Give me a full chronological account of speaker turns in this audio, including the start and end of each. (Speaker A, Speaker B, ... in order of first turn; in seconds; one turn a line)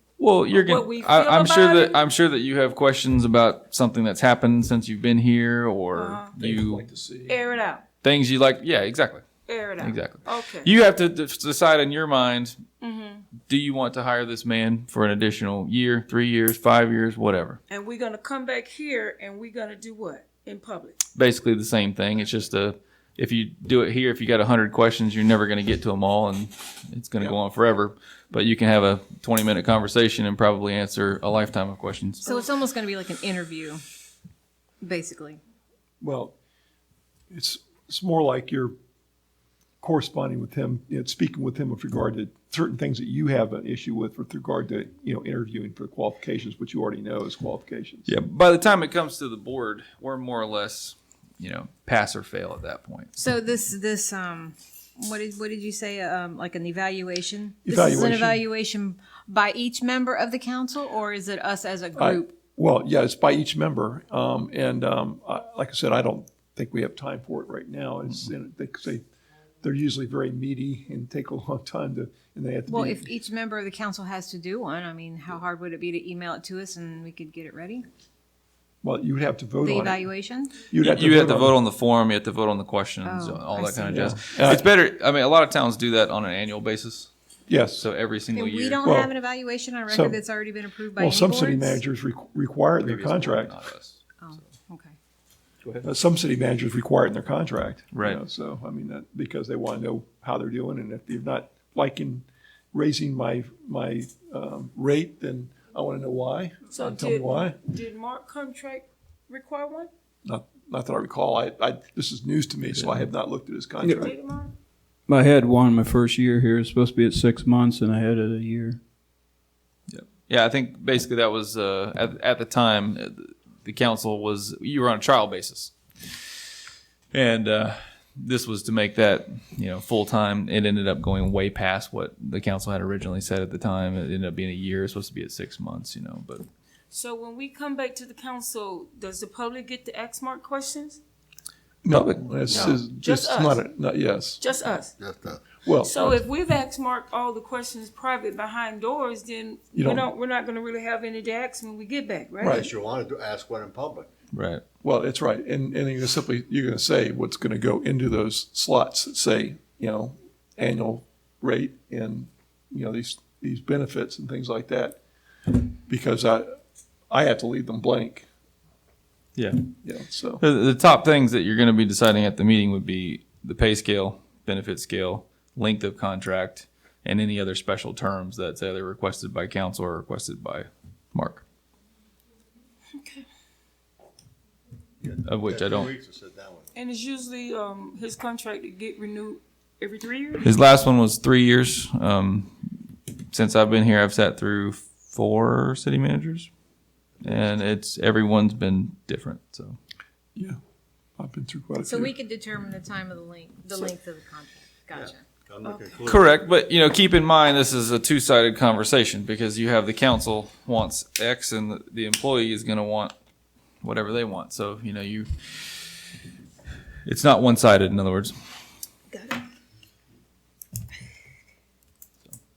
Speaker A: 0.2-6.9
Speaker B: 0.5-2.0
Speaker B: 5.9-6.4
Speaker C: 6.4-7.4
Speaker B: 7.3-7.8
Speaker A: 8.0-9.2
Speaker B: 9.5-10.7
Speaker A: 9.8-12.6
Speaker B: 12.8-13.3
Speaker A: 13.5-17.6
Speaker B: 17.7-21.0
Speaker A: 21.1-32.3
Speaker D: 32.2-33.8
Speaker D: 34.8-35.4
Speaker C: 36.0-36.3
Speaker C: 37.3-38.7
Speaker C: 39.8-48.1
Speaker A: 48.0-53.1
Speaker D: 53.2-62.3
Speaker C: 57.6-58.4
Speaker C: 62.0-69.0
Speaker C: 69.6-73.1
Speaker D: 72.7-77.9
Speaker C: 78.8-80.0
Speaker D: 79.6-80.7
Speaker C: 80.6-81.6
Speaker A: 80.8-87.1
Speaker D: 83.0-84.0
Speaker C: 83.9-84.7
Speaker C: 87.5-87.9
Speaker A: 87.7-88.8
Speaker D: 88.3-91.8
Speaker C: 88.8-89.1
Speaker C: 89.9-90.2
Speaker C: 91.0-93.5
Speaker A: 92.8-94.3
Speaker D: 94.2-95.0
Speaker C: 95.8-107.6
Speaker A: 97.9-98.2
Speaker B: 106.7-109.9
Speaker C: 110.2-114.1
Speaker E: 113.8-114.1
Speaker B: 113.9-114.5
Speaker E: 115.1-118.8
Speaker A: 119.9-126.3
Speaker A: 127.1-136.4
Speaker B: 136.9-141.0
Speaker C: 141.8-144.4
Speaker B: 142.5-143.6
Speaker B: 144.4-144.9
Speaker F: 145.0-145.5
Speaker C: 145.6-146.1
Speaker B: 145.8-152.7
Speaker C: 149.7-150.1
Speaker C: 152.4-152.7
Speaker F: 152.5-154.1
Speaker A: 154.3-154.6
Speaker C: 154.8-165.0
Speaker C: 165.5-168.3
Speaker C: 169.8-170.4
Speaker A: 170.4-181.4
Speaker B: 182.9-183.2
Speaker F: 185.0-186.7
Speaker A: 185.2-185.9
Speaker B: 186.7-190.5
Speaker A: 190.4-196.5
Speaker F: 197.2-197.6
Speaker A: 197.2-199.8
Speaker C: 201.2-202.1
Speaker D: 201.8-205.2
Speaker F: 204.9-206.5
Speaker B: 205.6-206.0
Speaker A: 206.1-213.1
Speaker A: 213.8-216.0
Speaker A: 217.1-218.4
Speaker B: 219.1-219.4